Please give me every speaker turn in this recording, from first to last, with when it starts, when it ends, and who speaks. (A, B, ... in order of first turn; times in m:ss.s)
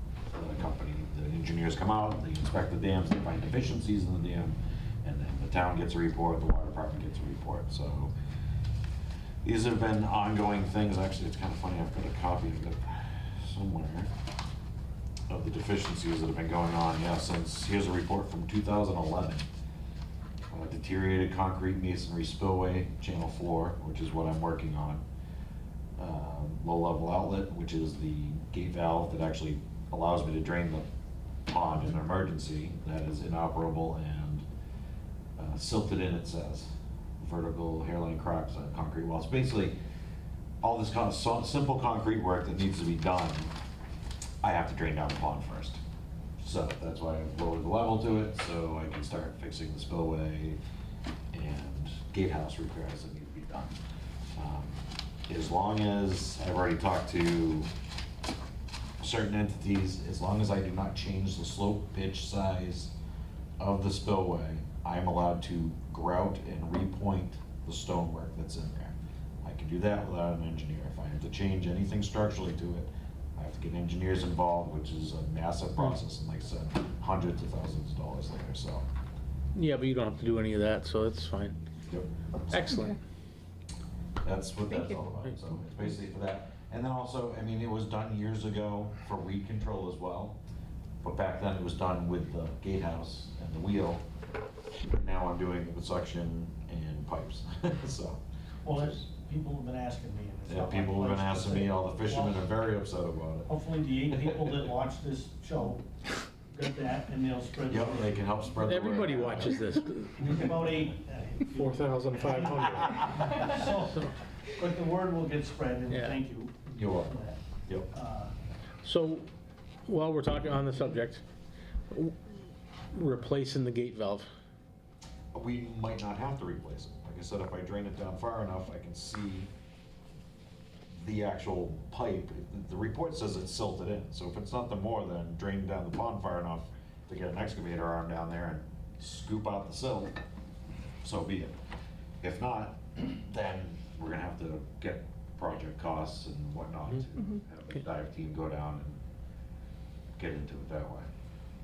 0:00.3-0:08.1 A
0:09.4-0:14.1 A
0:15.3-0:19.4 A
0:20.5-0:25.0 A
0:26.0-0:30.8 A
0:31.5-0:34.4 A
0:35.4-0:39.8 A
0:40.6-0:43.5 A
0:44.4-0:45.8 A
0:46.4-0:50.6 A
0:51.3-0:53.8 A
0:54.3-0:57.7 A
0:59.0-1:02.9 A
1:03.6-1:18.8 A
1:19.5-1:21.6 B
1:21.9-1:22.6 A
1:22.5-1:23.0 B
1:24.2-1:30.4 A
1:31.0-1:34.0 A
1:34.8-1:38.2 A
1:38.6-1:42.4 C
1:40.5-1:43.5 A
1:43.5-1:45.8 C
1:46.5-1:48.3 C
1:47.7-1:49.6 A
1:48.6-1:50.5 B
1:50.2-1:54.0 C
1:51.5-1:54.2 B
1:54.5-1:58.3 C
1:55.9-1:56.2 B
1:56.7-1:57.1 A
1:58.8-1:59.3 B
1:59.9-2:01.2 B
2:01.9-2:02.2 B
2:02.9-2:04.3 B
2:05.3-2:09.5 A
2:10.9-2:20.2 A
2:21.0-2:21.6 A
2:22.2-2:29.0 A
2:30.2-2:31.1 A